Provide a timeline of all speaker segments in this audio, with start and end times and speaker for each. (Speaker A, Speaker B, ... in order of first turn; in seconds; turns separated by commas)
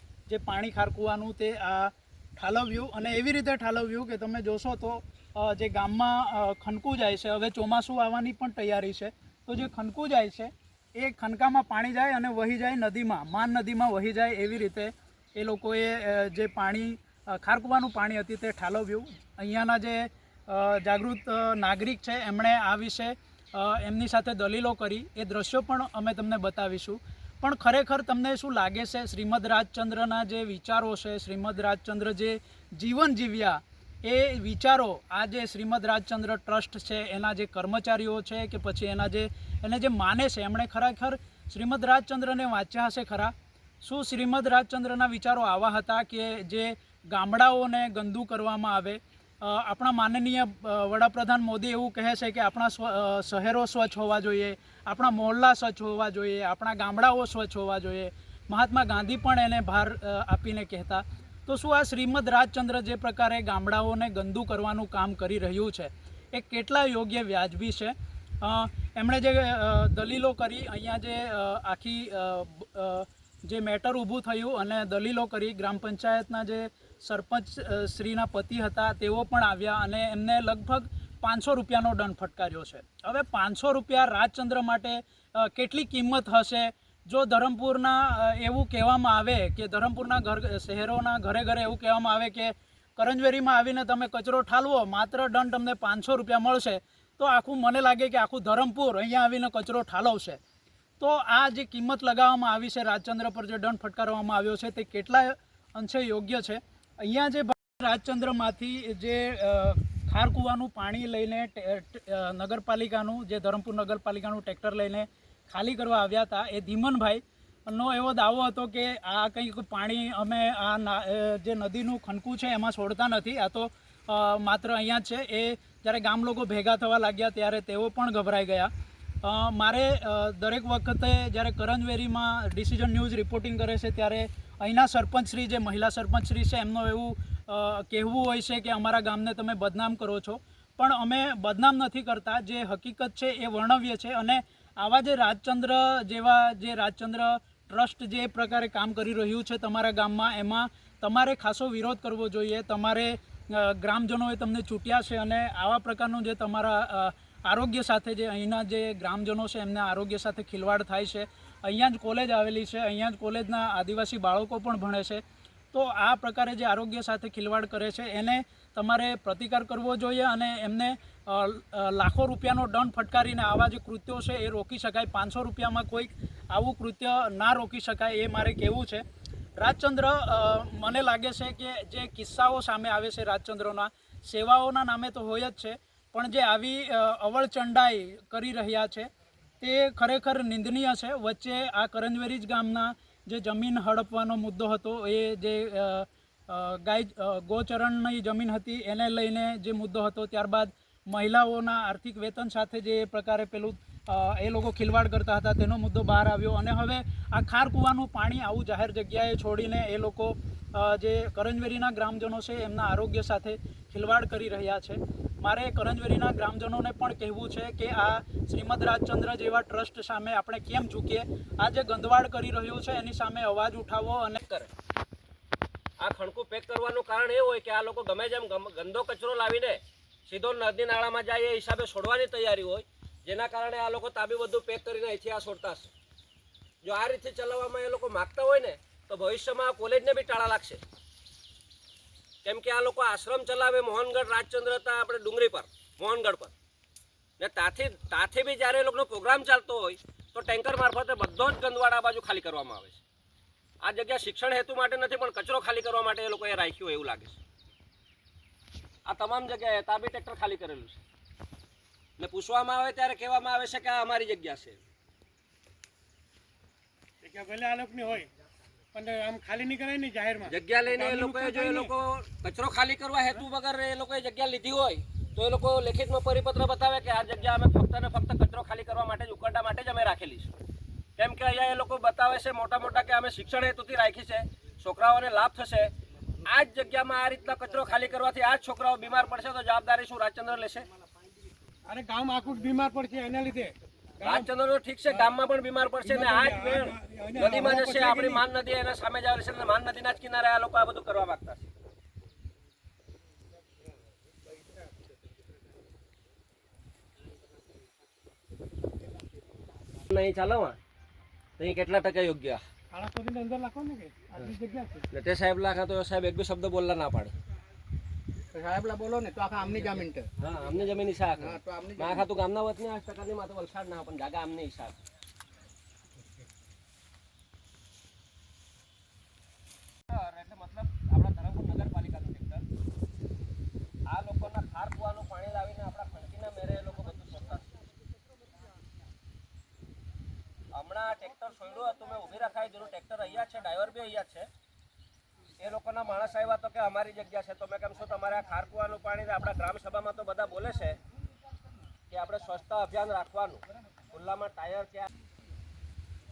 Speaker A: 0.3-43.3, Speaker A: 43.8-100.4, Speaker A: 101.0-128.7, Speaker A: 129.2-165.2, Speaker A: 165.7-179.0, Speaker A: 179.6-189.1, Speaker A: 189.6-224.7, Speaker B: 226.0-235.9, Speaker B: 236.8-240.8, Speaker B: 242.4-246.5, Speaker B: 247.4-253.0, Speaker B: 253.8-257.4, Speaker B: 259.1-261.0, Speaker B: 262.2-264.8, Speaker C: 267.2-268.3, Speaker C: 268.9-271.9, Speaker B: 270.5-280.5, Speaker B: 281.2-285.9, Speaker B: 286.4-290.9, Speaker C: 291.9-294.5, Speaker B: 294.2-301.7, Speaker C: 295.1-295.4, Speaker C: 296.0-298.5, Speaker B: 310.1-310.8, Speaker B: 311.6-312.6, Speaker C: 312.9-315.0, Speaker B: 315.1-317.3, Speaker D: 318.5-320.2, Speaker B: 319.8-325.0, Speaker D: 321.4-322.3, Speaker B: 330.1-332.6, Speaker B: 334.1-337.6, Speaker B: 340.7-344.5, Speaker B: 345.6-351.0, Speaker B: 352.1-355.1